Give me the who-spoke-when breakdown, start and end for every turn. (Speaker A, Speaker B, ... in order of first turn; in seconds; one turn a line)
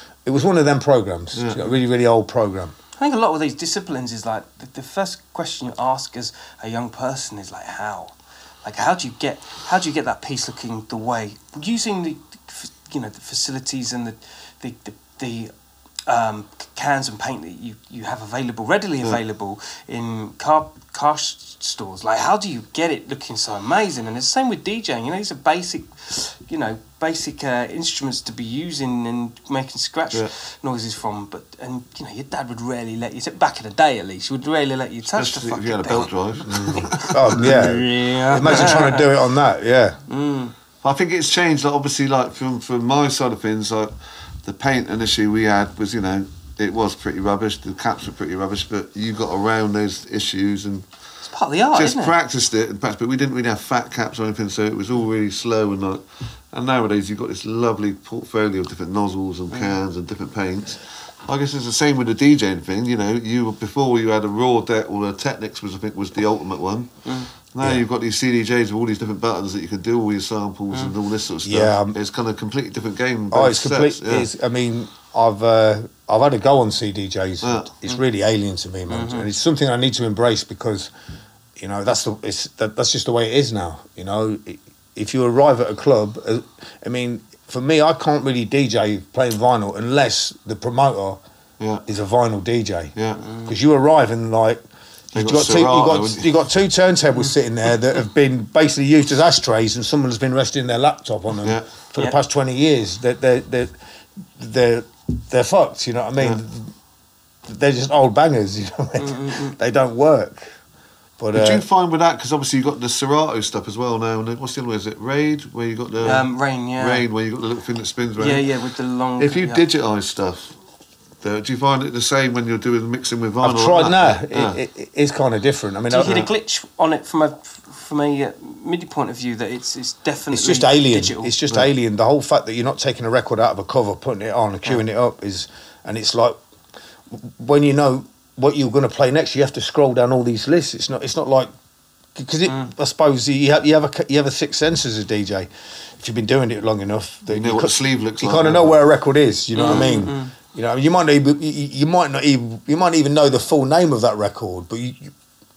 Speaker A: 0.2-2.7
Speaker B: 1.3-1.8
Speaker C: 3.0-15.5
Speaker C: 16.1-39.1
Speaker B: 35.1-37.9
Speaker A: 36.5-40.0
Speaker B: 38.4-38.8
Speaker C: 40.1-40.5
Speaker B: 40.8-43.9
Speaker B: 44.4-50.9
Speaker C: 51.2-52.1
Speaker B: 51.7-74.3
Speaker C: 67.0-67.3
Speaker A: 71.4-72.0
Speaker A: 73.3-80.9
Speaker B: 77.4-77.7
Speaker C: 78.9-79.3
Speaker A: 81.6-91.2
Speaker A: 91.8-92.9
Speaker B: 93.0-93.2
Speaker C: 93.2-93.5
Speaker A: 93.5-94.6
Speaker B: 95.1-96.3
Speaker A: 95.1-103.7
Speaker A: 104.3-106.7
Speaker A: 107.5-110.5
Speaker C: 109.0-109.5
Speaker A: 111.2-111.6
Speaker B: 111.3-118.5
Speaker C: 116.0-117.0
Speaker C: 118.2-119.6
Speaker B: 119.2-120.5
Speaker B: 121.2-124.6
Speaker A: 123.4-126.3
Speaker C: 125.9-131.3
Speaker A: 130.3-136.4
Speaker A: 137.1-141.5
Speaker A: 142.1-155.1
Speaker B: 147.3-148.8
Speaker C: 149.5-150.3